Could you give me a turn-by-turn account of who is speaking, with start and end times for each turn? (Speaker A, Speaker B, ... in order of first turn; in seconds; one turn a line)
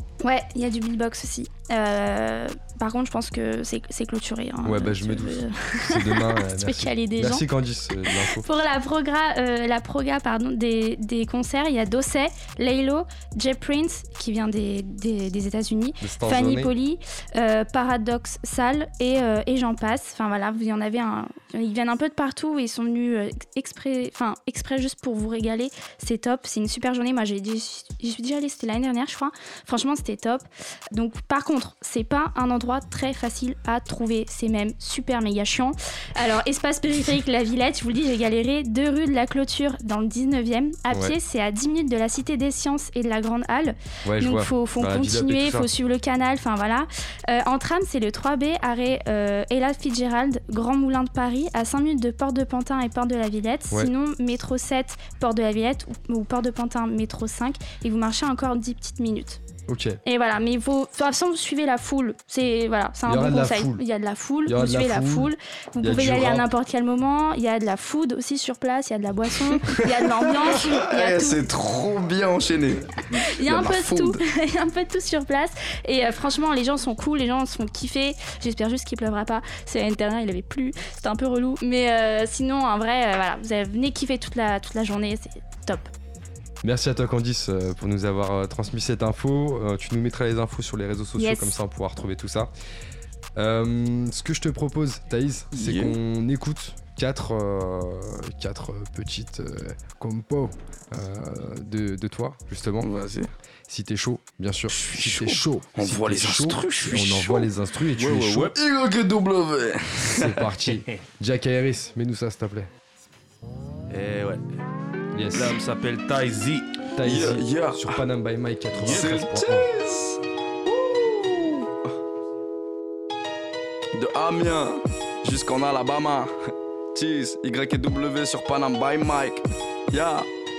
Speaker A: 0.2-7.4
Speaker B: 4.6-8.4
Speaker A: 8.1-59.4
Speaker B: 16.0-16.7
Speaker B: 44.0-45.7
Speaker B: 59.7-60.0
Speaker A: 60.0-71.4
Speaker B: 63.0-63.8
Speaker B: 64.4-65.3
Speaker B: 65.8-66.5
Speaker C: 70.6-74.2
Speaker A: 73.1-85.9
Speaker B: 86.6-92.5
Speaker A: 91.2-91.5
Speaker B: 93.3-102.9
Speaker C: 95.5-95.9
Speaker C: 102.8-103.3
Speaker B: 103.7-108.6
Speaker C: 104.7-107.5
Speaker C: 108.1-110.5
Speaker B: 110.1-112.7
Speaker D: 113.9-114.4
Speaker B: 115.1-115.6
Speaker D: 115.3-116.8
Speaker B: 116.9-119.7
Speaker C: 117.0-118.0
Speaker D: 118.8-119.2
Speaker C: 118.8-121.7
Speaker C: 123.9-130.3